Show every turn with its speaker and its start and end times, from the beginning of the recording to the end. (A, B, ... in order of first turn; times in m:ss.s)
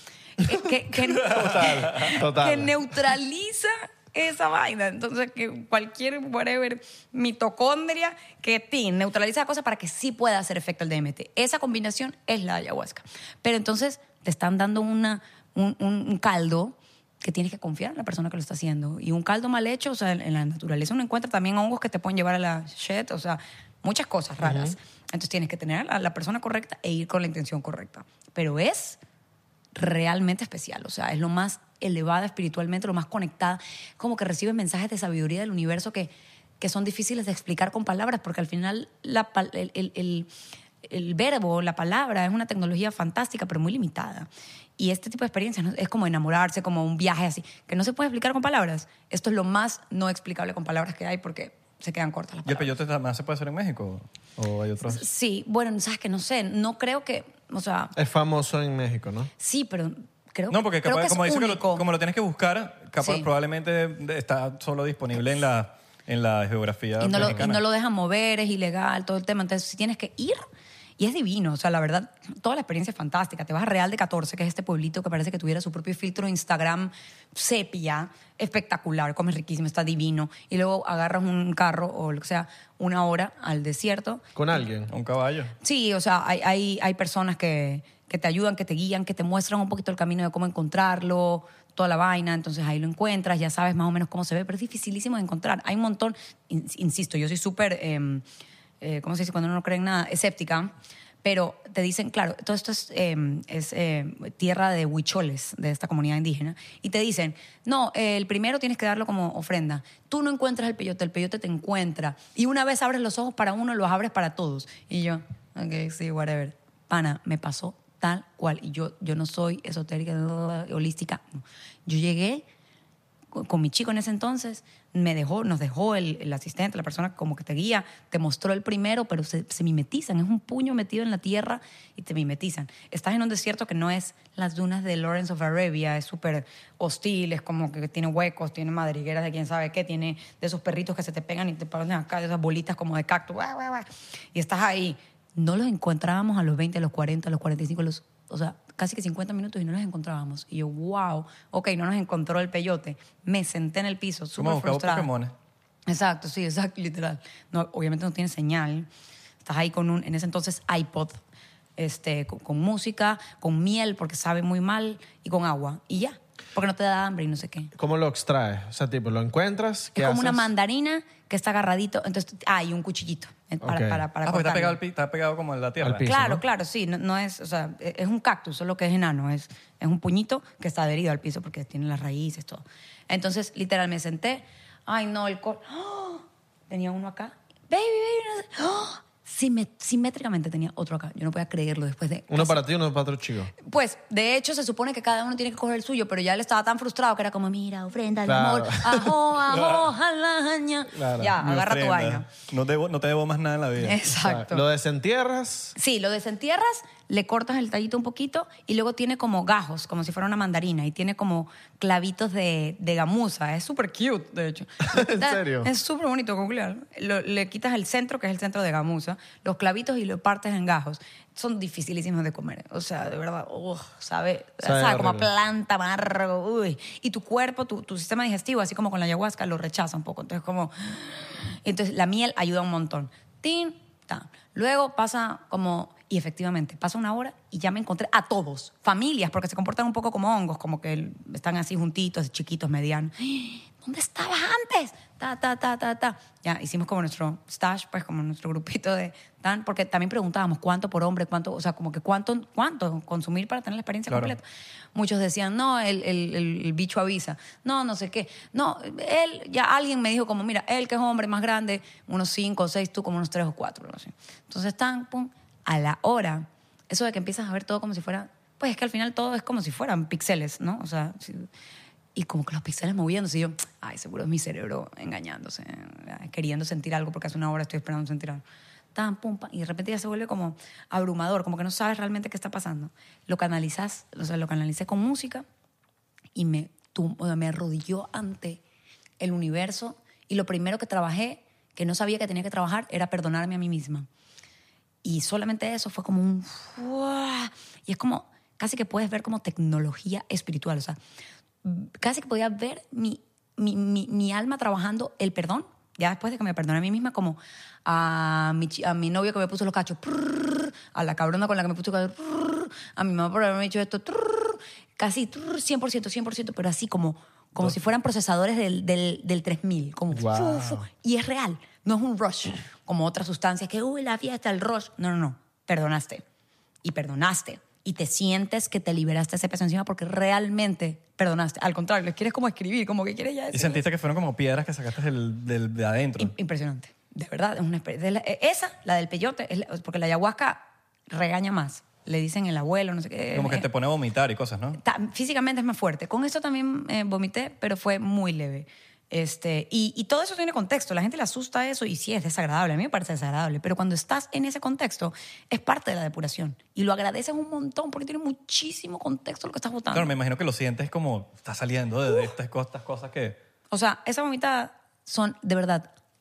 0:00.4-0:29.0 A
0:01.1-0:02.7 B
0:01.3-0:02.1 C
0:24.4-0:24.8 B
0:29.7-0:40.3 A
0:40.8-0:52.7 A
0:52.4-0:55.0 C
0:54.4-0:54.9 B
0:54.9-0:57.9 A
0:57.9-0:59.3 B
0:59.4-1:01.8 A
1:00.5-1:07.6 C
1:03.0-1:03.3 A
1:07.0-1:10.4 A
1:07.2-1:07.4 B
1:11.0-1:24.2 A
1:24.3-1:24.9 B
1:24.9-1:25.5 C
1:25.6-1:38.2 A
1:38.8-1:40.7 A
1:41.2-2:02.4 A
2:03.3-2:35.1 A
2:34.4-2:35.3 C
2:35.9-2:38.9 A
2:39.4-2:41.2 A
2:41.8-2:47.7 A
2:47.7-2:50.5 B
2:49.9-2:54.8 A
2:53.6-2:54.0 B
2:54.2-2:56.1 C
2:55.8-2:56.4 B
2:56.0-3:12.6 A
3:12.3-3:13.5 B
3:13.6-3:22.3 A
3:18.2-3:19.1 B
3:19.5-3:19.8 C
3:20.9-3:21.3 B
3:21.4-3:24.0 C
3:23.8-3:24.6 A
3:24.2-3:25.8 B
3:25.8-4:14.4 A
3:34.8-3:35.7 B
3:44.6-3:45.3 B
4:14.1-4:14.3 C
4:14.9-4:31.5 A
4:32.1-4:38.4 A
4:38.9-4:45.4 A
4:46.3-4:48.6 A
4:49.2-4:54.1 A
4:55.0-5:01.0 A
5:01.6-5:26.2 A
5:20.1-5:20.8 B
5:26.8-5:33.8 A
5:33.5-5:36.3 C
5:36.2-5:43.7 A
5:43.3-5:44.8 C
5:44.8-6:00.1 A
5:59.9-6:03.4 C
6:03.7-6:05.9 A